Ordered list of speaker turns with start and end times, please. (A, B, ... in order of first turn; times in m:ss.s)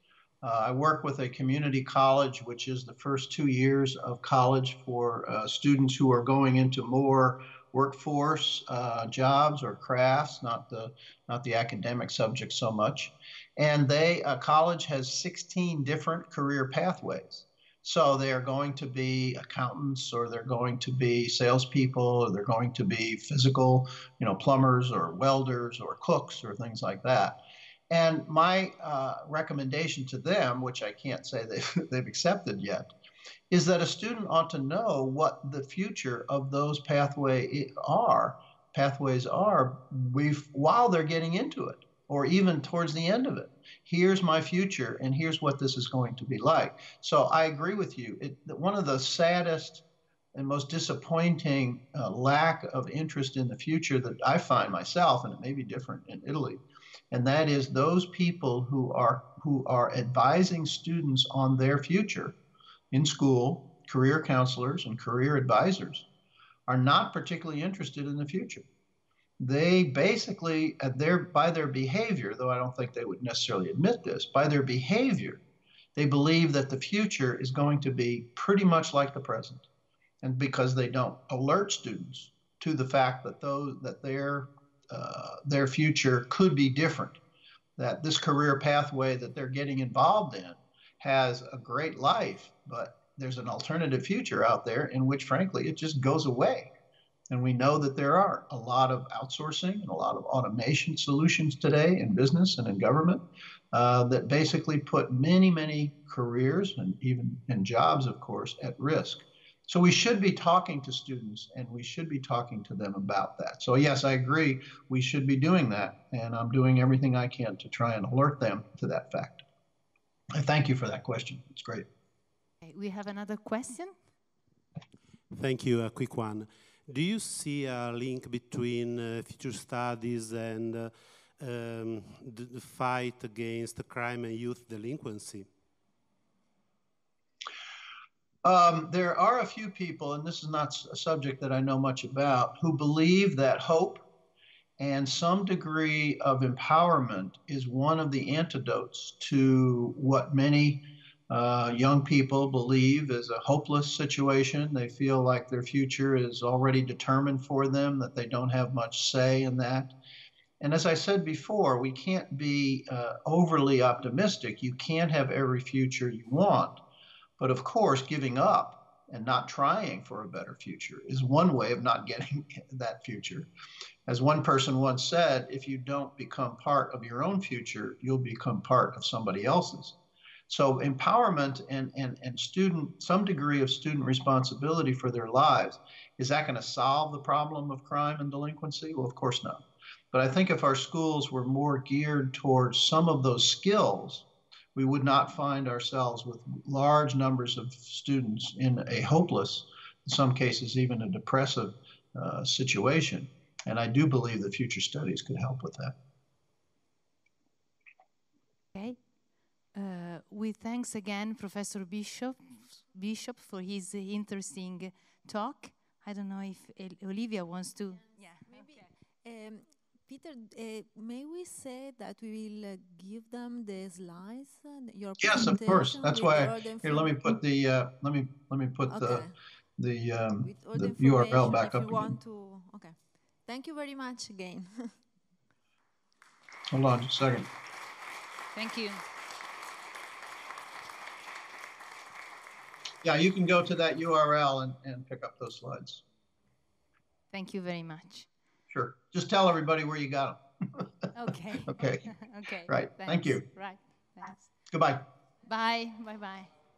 0:00.4-0:27.4 A
0:27.9-0:32.9 A
0:33.5-1:02.4 A
1:02.9-1:06.1 A
1:06.7-1:08.6 A
1:09.4-1:15.4 A
1:16.0-1:19.7 A
1:20.2-1:27.2 A
1:27.8-1:36.7 A
1:37.3-1:59.4 A
2:00.3-2:01.9 A
2:02.6-2:04.1 B
2:05.3-2:15.5 C
2:18.4-2:24.0 A
2:24.8-2:39.9 A
2:40.6-2:46.8 A
2:47.4-2:53.5 A
2:54.1-3:00.0 A
3:00.5-3:26.0 A
3:28.8-3:38.5 B
3:38.4-3:47.2 D
3:45.2-3:52.2 A
3:48.9-3:49.3 D
3:50.4-3:55.0 D
3:56.7-3:57.5 A
3:58.5-3:59.0 B
4:03.0-4:06.0 A
4:07.3-4:08.3 B
4:08.7-4:10.8 A
4:11.2-4:14.6 B
4:11.7-4:13.5 A
4:14.7-4:15.1 A
4:15.4-4:16.5 B